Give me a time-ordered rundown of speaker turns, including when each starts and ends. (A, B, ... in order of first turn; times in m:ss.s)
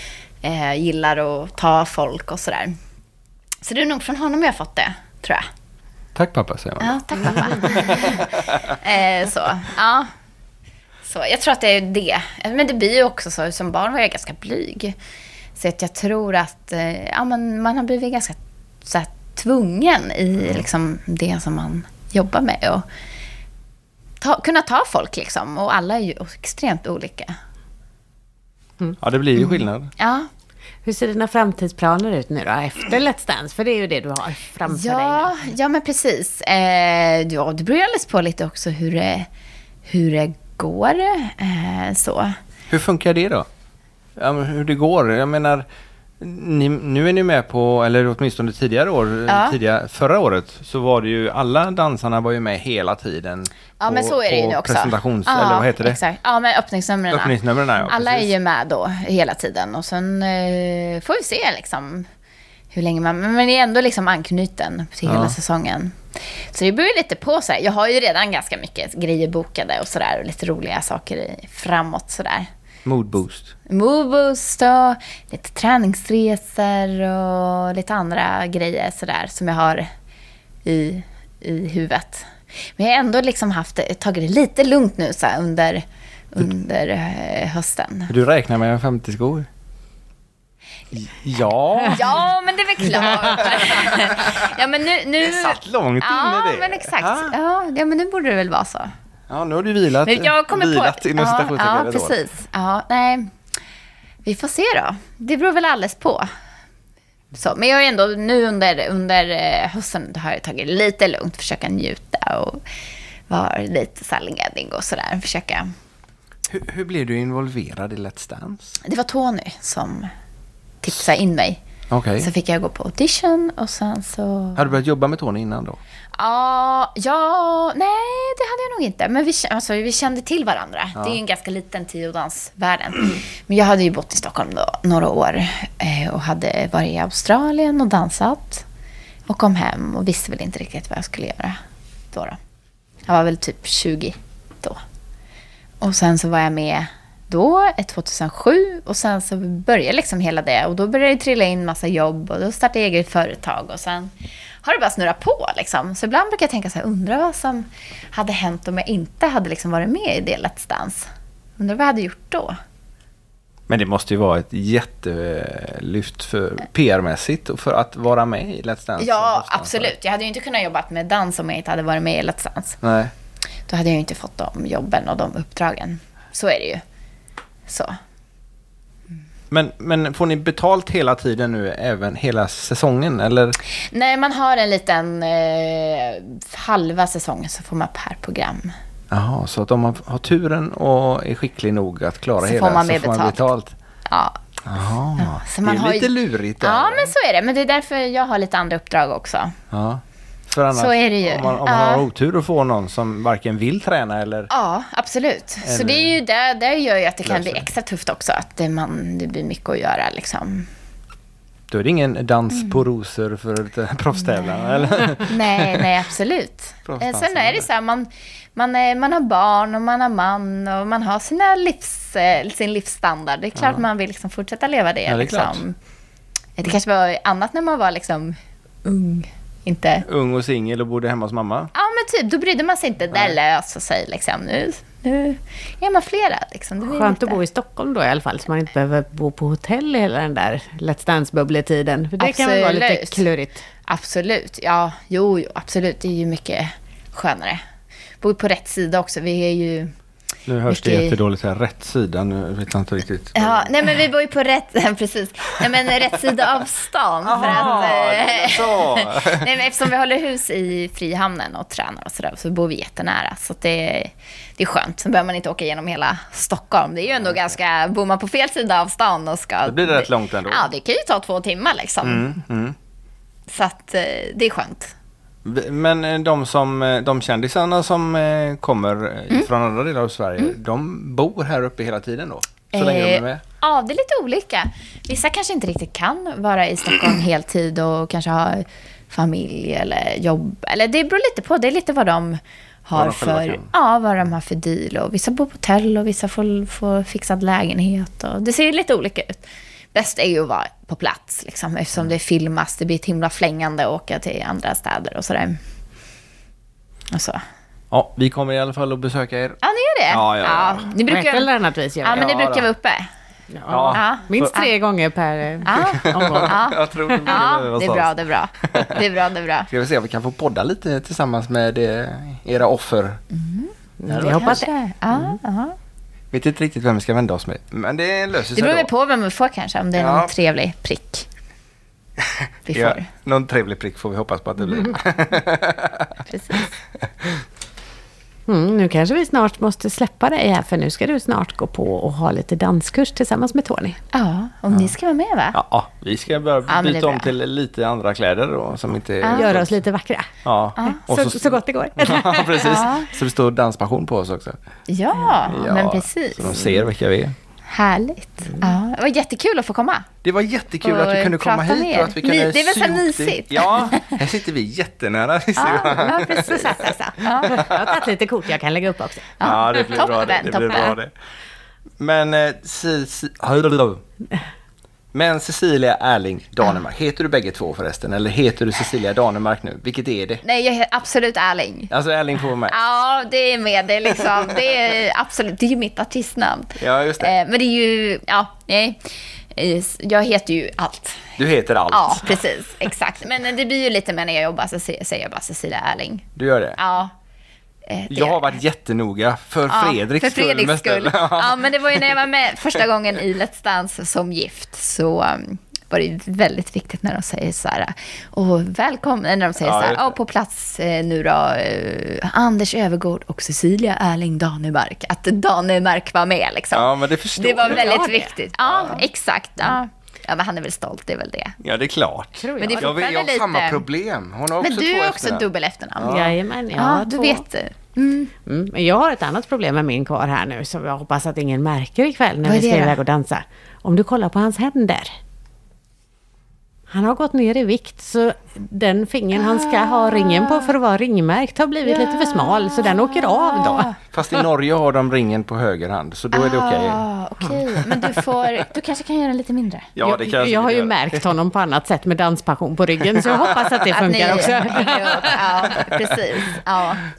0:00.4-0:02.8 A
0:03.6-0:05.5 A
0:06.2-0:08.7 B
0:06.8-0:10.1 A
0:11.0-0:15.0 A
0:15.6-0:22.8 A
0:24.2-0:27.4 A
0:29.0-0:29.9 B
0:29.4-0:30.3 A
0:30.8-0:35.4 C
0:34.7-0:39.3 A
0:39.9-0:42.4 A
0:42.7-0:43.5 B
0:44.2-0:45.6 B
0:46.2-0:56.0 B
0:49.3-0:49.6 A
0:53.8-1:02.1 A
0:57.1-0:58.3 B
1:02.7-1:12.5 A
1:05.1-1:05.4 B
1:12.8-1:13.6 B
1:13.7-1:19.9 A
1:20.6-1:28.1 A
1:28.1-1:29.5 B
1:30.9-1:32.1 B
1:31.9-1:38.9 A
1:33.4-1:34.4 B
1:35.2-1:37.3 B
1:39.3-1:42.2 B
1:40.0-1:43.3 A
1:44.2-1:46.3 A
1:47.3-1:52.6 A
1:53.3-1:55.7 A
1:56.5-1:58.8 B
1:58.8-2:00.1 A
2:00.8-2:01.6 A
2:01.9-2:02.3 B
2:02.2-2:04.7 A
2:04.6-2:05.8 B
2:06.2-2:18.6 A
2:19.3-2:21.6 A
2:22.1-2:22.4 A
2:23.1-2:24.8 A
2:25.8-2:34.1 A
2:34.6-2:41.1 A
2:41.6-2:42.6 A
2:43.7-2:49.9 B
2:49.0-2:52.8 A
2:52.8-2:53.1 B
2:53.7-2:56.8 A
2:57.7-2:58.0 A
2:59.5-3:03.6 B
3:03.9-3:08.7 A
3:09.1-3:13.8 B
3:12.4-3:13.4 A
3:14.1-3:14.4 A
3:14.6-3:17.1 B
3:15.2-3:19.6 A
3:19.7-3:24.5 B
3:20.8-3:22.0 A
3:24.5-3:30.7 A
3:25.6-3:26.2 B
3:27.2-3:27.7 B
3:31.7-3:35.9 B
3:32.5-3:32.8 A
3:34.3-3:45.8 A
3:36.9-3:37.7 B
3:43.6-3:43.8 B
3:45.1-3:45.6 B
3:46.6-3:50.1 A
3:50.0-3:51.7 B
3:51.7-3:57.4 A
3:53.1-3:53.4 B
3:56.8-4:03.6 C
4:02.2-4:03.2 A
4:03.9-4:07.6 A
4:08.2-4:09.9 A
4:10.5-4:13.7 B
4:10.7-4:11.2 A
4:13.4-4:32.3 A
4:17.2-4:19.5 B
4:29.6-4:30.7 B
4:32.0-4:32.8 B
4:33.5-4:34.9 A
4:35.4-4:43.4 B
4:42.7-5:05.6 A
4:53.0-4:53.7 B
5:07.1-5:07.4 A
5:07.9-5:09.6 B
5:09.6-5:11.5 A
5:10.1-5:10.9 B
5:11.1-5:12.5 C
5:12.0-5:13.1 A
5:12.2-5:12.7 B
5:13.5-5:17.2 C
5:13.7-5:14.5 B
5:13.9-5:14.7 A
5:15.6-5:19.7 A
5:16.0-5:18.1 B
5:18.6-5:19.0 B
5:19.7-5:23.2 B
5:23.3-5:25.8 A
5:24.0-5:24.7 C
5:24.1-5:24.7 B
5:26.3-5:28.9 B
5:28.5-5:31.3 A
5:30.0-5:30.3 B
5:32.2-5:36.2 B
5:32.7-5:33.1 A
5:36.3-5:36.7 A
5:38.5-5:44.0 C
5:44.1-5:45.6 A
5:45.5-5:49.7 B
5:46.7-5:47.3 A
5:49.2-5:49.5 A
5:49.4-5:52.9 C
5:50.4-5:54.6 B
5:52.6-5:53.1 A
5:54.9-5:56.9 A
5:55.5-5:57.4 B
5:57.7-6:00.1 A
6:00.2-6:07.9 B
6:00.8-6:04.2 A
6:05.6-6:07.7 A
6:07.5-6:09.4 C
6:09.4-6:11.0 A
6:09.4-6:11.1 B
6:12.0-6:14.0 B
6:15.1-6:20.4 B
6:20.4-6:21.9 A
6:21.9-6:22.8 B
6:22.7-6:29.0 A
6:26.8-6:27.4 B
6:29.5-6:31.4 A
6:31.4-6:32.4 B
6:31.9-6:37.1 A
6:36.4-6:36.8 B
6:37.9-6:38.6 A
6:38.1-6:42.2 B
6:39.7-7:01.6 A
6:49.6-6:50.2 B
6:56.7-6:58.0 B
6:57.6-6:58.3 C
6:58.6-6:59.0 B
7:01.6-7:05.5 B
7:02.4-7:02.9 C
7:02.6-7:03.8 A
7:04.6-7:06.2 A
7:06.0-7:06.4 B
7:06.1-7:07.4 C
7:06.8-7:08.3 A
7:08.4-7:15.2 C
7:12.4-7:13.0 A
7:16.9-7:24.0 C
7:19.5-7:20.6 A
7:21.9-7:24.0 A
7:24.0-7:27.0 B
7:26.3-7:30.1 A
7:27.8-7:28.1 B
7:30.0-7:31.2 B
7:30.1-7:35.4 C
7:33.2-7:33.6 B
7:33.9-7:37.0 A
7:34.8-7:36.2 B